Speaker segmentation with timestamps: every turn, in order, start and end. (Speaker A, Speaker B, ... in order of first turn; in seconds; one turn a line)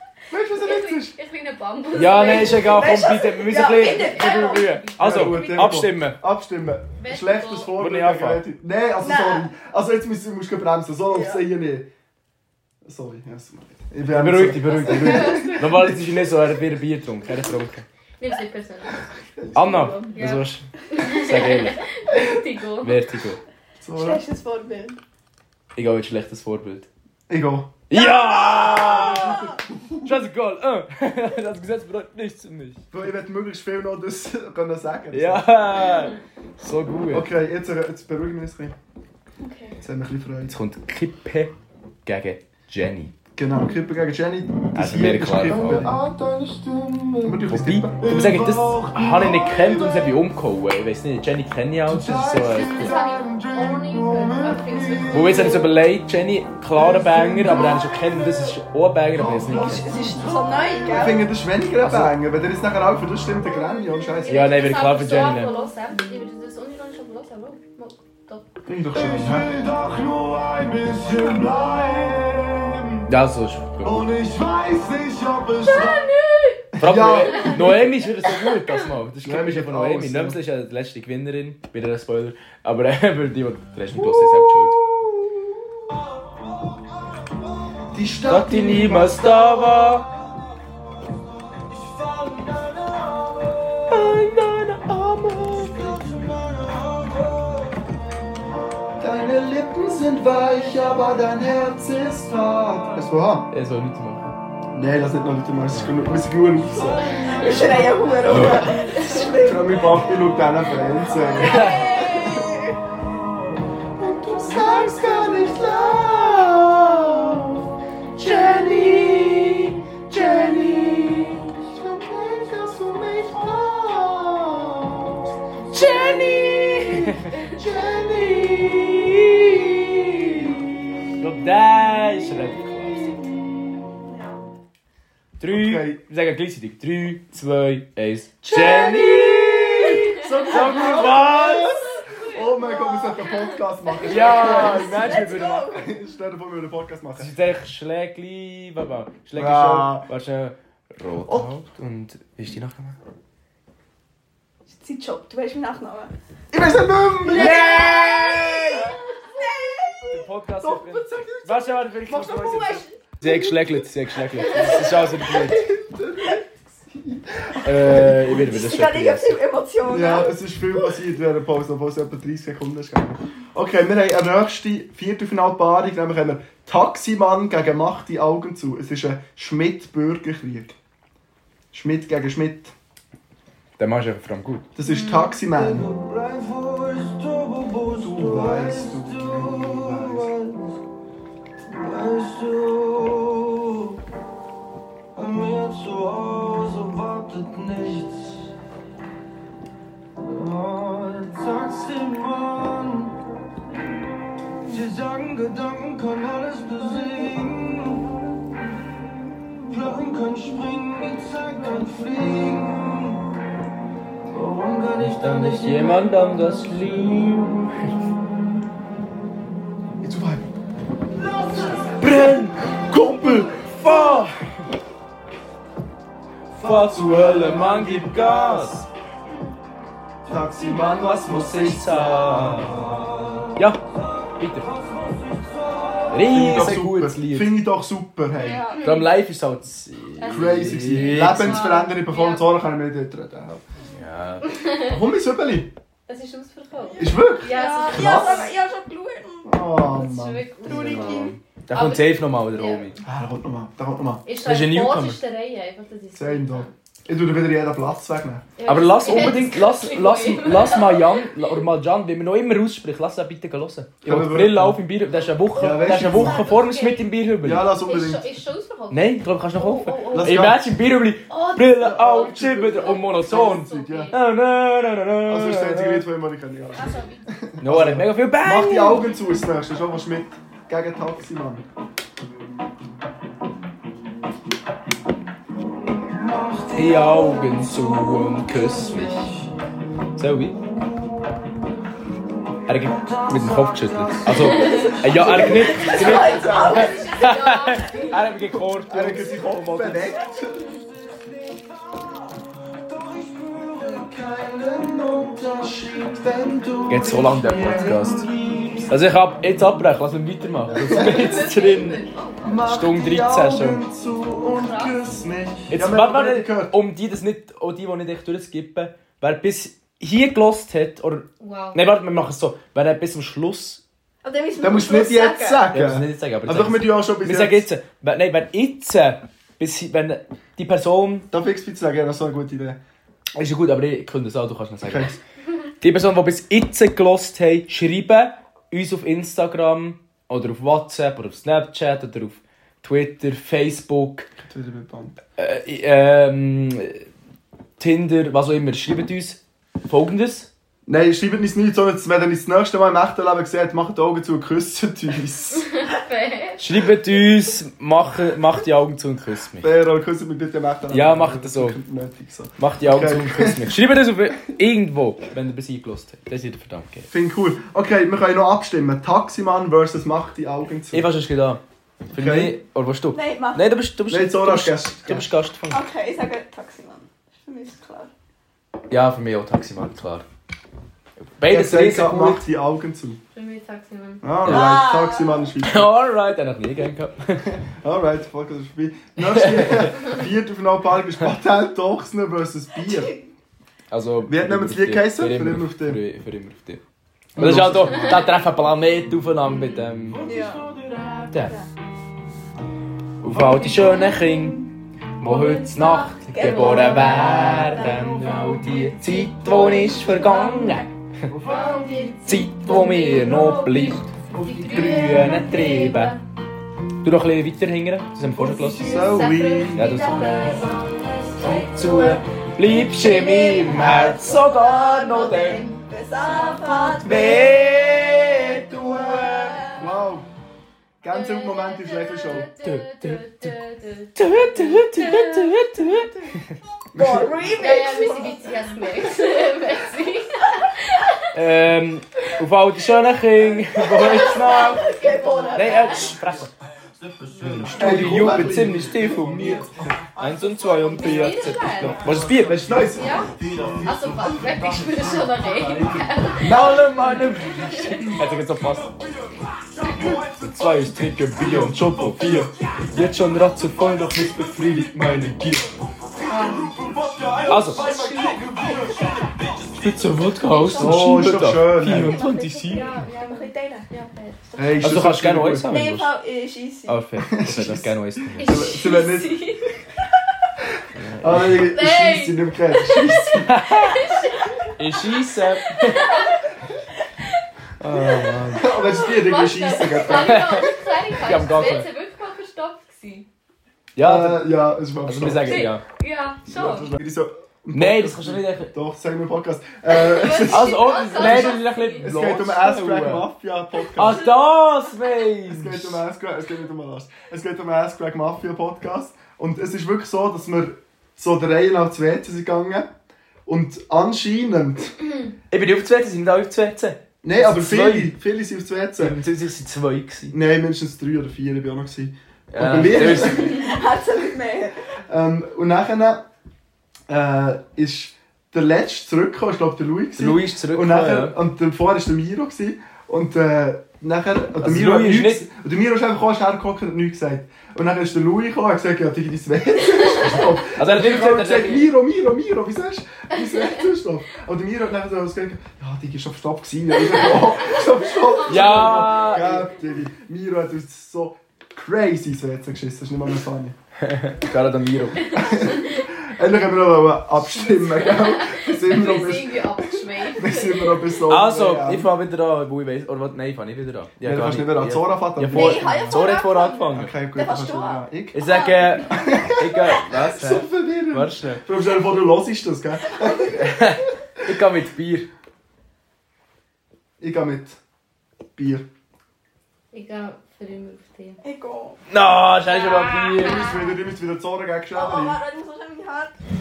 Speaker A: 0.3-1.2
Speaker B: 0.5-2.8
Speaker C: 1.9-6.2
Speaker D: 2.1-4.7
Speaker B: 3.8-5.8
Speaker A: 5.0-11.9
Speaker B: 7.0-7.8
Speaker C: 7.8-8.4
Speaker D: 9.0-9.5
Speaker D: 11.1-11.4
Speaker A: 12.8-16.0
Speaker C: 14.0-17.9
Speaker B: 14.7-15.9
Speaker B: 18.2-19.0
Speaker A: 19.2-20.2
Speaker C: 19.5-21.8
Speaker B: 20.1-23.0
Speaker C: 22.8-23.4
Speaker A: 23.8-24.2
Speaker D: 23.9-25.0
Speaker C: 25.7-26.9
Speaker A: 27.3-27.8
Speaker C: 27.9-32.8
Speaker D: 27.9-29.3
Speaker A: 28.7-30.2
Speaker A: 32.9-35.6
Speaker C: 35.1-37.3
Speaker A: 37.1-38.7
Speaker D: 39.4-39.8
Speaker A: 39.8-40.5
Speaker C: 40.5-41.5
Speaker C: 42.0-43.1
Speaker A: 43.4-46.0
Speaker C: 44.7-45.9
Speaker E: 45.4-50.2
Speaker A: 47.2-48.0
Speaker C: 47.5-53.0
Speaker E: 51.9-55.7
Speaker B: 52.6-55.6
Speaker C: 55.1-59.9
Speaker A: 56.8-57.9
Speaker E: 56.8-58.5
Speaker A: 59.1-59.8
Speaker E: 59.2-61.1
Speaker D: 59.5-61.3
Speaker A: 60.9-64.6
Speaker C: 61.8-62.1
Speaker B: 64.2-68.5
Speaker C: 64.3-65.6
Speaker A: 68.7-69.5
Speaker E: 68.9-73.1
Speaker C: 73.1-74.1
Speaker E: 73.8-76.1
Speaker B: 75.7-76.6
Speaker A: 76.7-77.9
Speaker C: 76.8-84.8
Speaker B: 77.3-77.6
Speaker A: 79.2-80.4
Speaker A: 83.9-85.5
Speaker E: 86.3-86.7
Speaker A: 87.9-89.9
Speaker C: 88.3-90.1
Speaker E: 91.7-94.2
Speaker C: 93.9-96.0
Speaker E: 95.8-97.8
Speaker A: 99.0-103.5
Speaker C: 103.5-104.3
Speaker A: 104.7-112.5
Speaker C: 105.7-106.0
Speaker E: 106.8-108.3
Speaker B: 107.1-107.8
Speaker D: 107.3-110.0
Speaker C: 108.2-108.8
Speaker B: 108.9-109.2
Speaker D: 111.3-112.8
Speaker C: 111.4-111.9
Speaker A: 114.0-117.7
Speaker E: 114.8-115.4
Speaker A: 118.2-125.2
Speaker C: 118.6-119.2
Speaker C: 120.3-121.1
Speaker C: 125.7-127.3
Speaker A: 127.0-128.8
Speaker C: 128.2-130.5
Speaker C: 131.2-133.2
Speaker D: 134.1-134.4
Speaker C: 135.4-141.8
Speaker A: 135.5-136.0
Speaker A: 138.5-147.3
Speaker D: 138.5-139.1
Speaker B: 142.1-143.6
Speaker D: 144.0-145.9
Speaker C: 144.0-145.7
Speaker C: 147.2-153.0
Speaker A: 149.3-150.1
Speaker A: 151.2-151.5
Speaker D: 154.7-156.1
Speaker A: 156.5-157.9
Speaker C: 157.2-158.9
Speaker D: 157.2-160.2
Speaker A: 158.7-160.1
Speaker C: 160.1-165.7
Speaker A: 160.6-163.8
Speaker D: 162.1-162.9
Speaker A: 164.4-168.6
Speaker C: 167.6-169.4
Speaker D: 168.4-170.8
Speaker A: 169.8-180.8
Speaker A: 181.7-182.7
Speaker C: 183.8-184.7
Speaker A: 184.8-185.9
Speaker B: 184.8-185.4
Speaker E: 185.4-190.7
Speaker A: 188.0-190.3
Speaker E: 191.7-194.0
Speaker E: 195.1-198.5
Speaker E: 200.2-203.2
Speaker E: 204.6-208.3
Speaker E: 209.7-213.3
Speaker E: 214.3-216.8
Speaker C: 215.2-217.9
Speaker A: 220.0-220.4
Speaker E: 221.2-222.4
Speaker C: 222.0-224.6
Speaker A: 222.9-223.3
Speaker C: 226.5-228.9
Speaker E: 226.6-228.7
Speaker A: 230.3-233.1
Speaker E: 230.3-230.8
Speaker C: 230.7-232.9
Speaker E: 232.8-233.6
Speaker C: 234.4-234.7
Speaker E: 234.6-236.3
Speaker C: 236.1-237.6
Speaker A: 236.3-238.7
Speaker D: 238.3-238.9
Speaker B: 238.7-239.1
Speaker C: 238.8-241.7
Speaker B: 240.2-242.5
Speaker A: 240.2-243.6
Speaker C: 243.9-244.5
Speaker B: 244.5-244.9
Speaker A: 244.8-245.7
Speaker B: 246.1-248.5
Speaker D: 246.8-249.5
Speaker A: 247.0-248.5
Speaker A: 249.4-251.3
Speaker B: 249.9-253.0
Speaker D: 250.6-251.3
Speaker C: 250.6-253.0
Speaker A: 253.0-254.2
Speaker B: 254.2-256.7
Speaker C: 254.4-255.2
Speaker A: 256.1-258.5
Speaker B: 258.6-261.2
Speaker C: 258.6-267.7
Speaker A: 264.0-264.8
Speaker A: 265.5-266.5
Speaker B: 265.8-267.1
Speaker A: 267.4-268.3
Speaker B: 267.8-270.5
Speaker C: 268.9-276.1
Speaker A: 270.1-270.7
Speaker B: 271.3-274.1
Speaker A: 271.8-274.2
Speaker A: 275.2-281.6
Speaker B: 276.7-277.2
Speaker C: 277.6-279.1
Speaker E: 286.1-289.3
Speaker C: 286.7-289.3
Speaker C: 290.2-290.6
Speaker C: 292.7-300.2
Speaker E: 292.7-295.4
Speaker B: 294.4-294.9
Speaker D: 294.9-297.3
Speaker A: 295.0-296.9
Speaker B: 296.4-298.3
Speaker A: 298.9-300.7
Speaker E: 301.1-302.0
Speaker E: 302.9-304.1
Speaker A: 303.8-308.9
Speaker C: 306.9-308.2
Speaker E: 307.8-308.8
Speaker C: 308.9-312.0
Speaker A: 310.7-311.4
Speaker B: 310.9-312.6
Speaker A: 312.4-316.8
Speaker C: 312.6-313.8
Speaker B: 314.5-315.0
Speaker C: 315.7-323.8
Speaker B: 321.4-321.8
Speaker D: 324.2-325.6
Speaker A: 324.6-327.6
Speaker C: 325.7-331.3
Speaker A: 331.3-332.8
Speaker C: 333.3-335.1
Speaker A: 334.8-335.2
Speaker C: 335.8-344.3
Speaker A: 344.4-345.2
Speaker C: 345.4-347.1
Speaker C: 347.8-350.5
Speaker A: 350.9-355.7
Speaker B: 355.5-356.6
Speaker C: 356.6-359.7
Speaker A: 359.6-363.7
Speaker C: 360.9-361.8
Speaker C: 362.6-367.1
Speaker A: 367.1-371.1
Speaker C: 370.9-375.8
Speaker A: 372.1-372.6
Speaker D: 373.1-373.7
Speaker A: 374.1-375.3
Speaker D: 375.7-378.1
Speaker C: 378.9-380.2
Speaker C: 381.4-382.4
Speaker A: 381.5-383.2
Speaker B: 383.3-384.2
Speaker A: 384.2-385.9
Speaker C: 384.4-384.8
Speaker D: 384.4-385.5
Speaker C: 385.6-387.6
Speaker A: 387.8-393.1
Speaker C: 389.2-390.1
Speaker D: 392.9-393.2
Speaker C: 393.9-396.8
Speaker A: 394.2-396.0
Speaker A: 397.3-398.2
Speaker C: 397.4-400.3
Speaker E: 400.1-401.4
Speaker D: 400.2-400.6
Speaker C: 401.3-401.6
Speaker C: 403.2-410.9
Speaker D: 405.3-410.9
Speaker E: 411.3-412.5
Speaker B: 411.5-416.2
Speaker C: 412.2-414.1
Speaker E: 413.2-413.6
Speaker E: 414.3-415.4
Speaker C: 414.6-416.2
Speaker C: 417.0-419.0
Speaker B: 418.8-421.0
Speaker A: 418.8-420.1
Speaker C: 419.7-420.6
Speaker D: 419.8-420.7
Speaker D: 421.4-429.9
Speaker C: 421.4-425.7
Speaker B: 426.6-427.0
Speaker C: 427.0-429.5
Speaker A: 429.8-430.3
Speaker A: 431.0-432.5
Speaker B: 431.1-436.0
Speaker C: 432.3-433.5
Speaker C: 434.1-436.5
Speaker A: 436.9-437.5
Speaker D: 436.9-438.6
Speaker B: 437.6-441.2
Speaker C: 441.3-445.0
Speaker D: 443.7-446.3
Speaker B: 444.0-446.0
Speaker C: 445.5-446.5
Speaker E: 447.2-448.3
Speaker C: 447.4-452.9
Speaker A: 447.5-449.7
Speaker E: 449.1-449.6
Speaker E: 450.2-456.2
Speaker B: 450.9-452.1
Speaker A: 452.6-453.2
Speaker B: 452.9-453.3
Speaker B: 453.8-458.1
Speaker C: 456.4-458.9
Speaker A: 456.4-456.9
Speaker E: 459.8-460.5
Speaker C: 459.9-465.7
Speaker A: 461.4-462.3
Speaker E: 462.0-462.3
Speaker B: 466.3-466.7
Speaker E: 466.4-469.3
Speaker C: 467.5-467.9
Speaker B: 468.1-468.3
Speaker C: 469.7-472.9
Speaker D: 470.5-471.0
Speaker B: 470.5-471.0
Speaker A: 470.7-472.2
Speaker D: 471.9-474.0
Speaker B: 472.6-474.4
Speaker D: 474.5-474.9
Speaker A: 474.6-475.8
Speaker C: 474.8-476.1
Speaker D: 475.7-477.0
Speaker C: 476.9-478.7
Speaker A: 477.2-479.4
Speaker B: 478.4-479.6
Speaker C: 480.9-481.7
Speaker A: 481.2-483.5
Speaker B: 481.6-484.5
Speaker C: 483.5-484.1
Speaker C: 484.8-486.2
Speaker B: 485.8-486.4
Speaker C: 487.8-488.7
Speaker A: 488.5-490.7
Speaker B: 488.7-493.3
Speaker C: 490.1-491.9
Speaker C: 493.9-495.8
Speaker A: 494.0-495.7
Speaker B: 495.5-496.9
Speaker A: 496.5-504.3
Speaker C: 497.7-498.7
Speaker B: 499.9-502.1
Speaker C: 500.4-503.3
Speaker C: 503.9-506.0
Speaker A: 505.5-512.9
Speaker A: 513.5-514.9
Speaker C: 515.5-518.1
Speaker A: 517.2-519.2
Speaker C: 519.0-520.4
Speaker A: 520.3-523.8
Speaker C: 522.5-523.6
Speaker D: 522.9-524.8
Speaker A: 525.1-526.2
Speaker A: 527.1-553.8
Speaker C: 530.2-531.4
Speaker C: 534.6-535.5
Speaker C: 540.8-541.9
Speaker B: 543.3-543.8
Speaker B: 547.1-549.4
Speaker C: 548.5-549.6
Speaker C: 554.0-555.3
Speaker B: 555.2-556.0
Speaker A: 555.3-562.1
Speaker B: 557.5-561.1
Speaker C: 561.3-567.1
Speaker A: 564.2-566.3
Speaker D: 565.5-569.5
Speaker A: 566.9-568.4
Speaker C: 568.3-571.6
Speaker A: 569.1-574.0
Speaker C: 573.6-575.3
Speaker A: 577.2-577.8
Speaker A: 578.5-578.9
Speaker B: 579.9-581.4
Speaker D: 581.4-582.0
Speaker C: 582.1-583.7
Speaker B: 582.6-584.0
Speaker A: 583.4-585.4
Speaker D: 584.9-586.4